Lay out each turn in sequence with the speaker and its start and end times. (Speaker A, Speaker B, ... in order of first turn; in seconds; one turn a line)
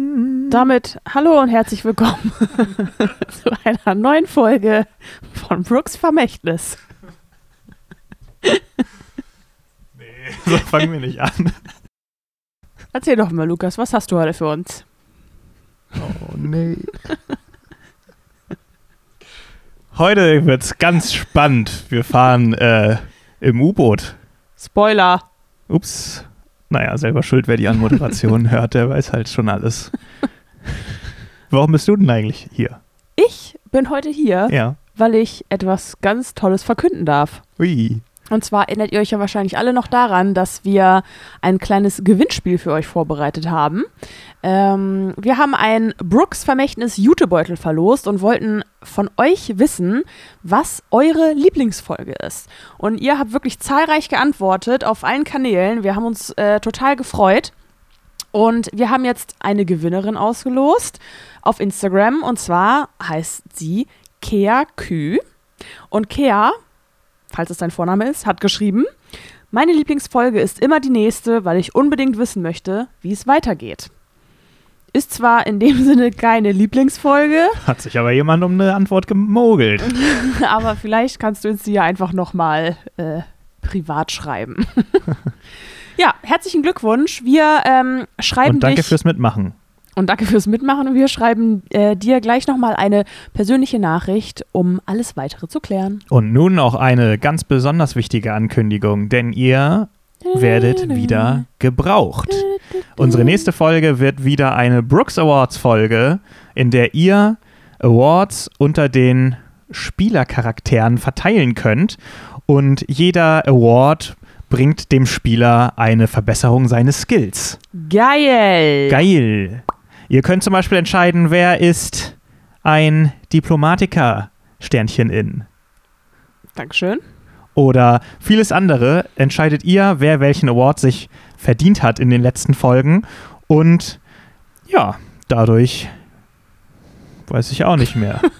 Speaker A: 0.5-6.8
Speaker B: 10.0-11.6
Speaker A: 12.9-14.8
Speaker B: 15.9-17.0
Speaker B: 19.9-24.2
Speaker A: 24.6-25.2
Speaker B: 25.7-30.0
Speaker B: 31.5-32.8
Speaker A: 33.2-37.4
Speaker B: 34.5-34.8
Speaker B: 37.6-38.0
Speaker A: 38.3-43.9
Speaker A: 44.4-57.5
Speaker A: 58.3-65.2
Speaker A: 65.9-66.6
Speaker A: 67.3-68.9
Speaker A: 69.5-73.9
Speaker A: 74.9-77.6
Speaker B: 77.6-80.0
Speaker A: 79.9-85.0
Speaker A: 86.0-88.9
Speaker B: 88.4-89.5
Speaker A: 90.0-96.0
Speaker B: 96.1-117.6
Speaker A: 100.2-101.4
Speaker A: 102.3-103.5
Speaker A: 117.7-119.0
Speaker B: 118.9-125.5
Speaker A: 126.5-127.0
Speaker B: 127.5-134.0
Speaker B: 134.7-135.9
Speaker B: 137.3-138.2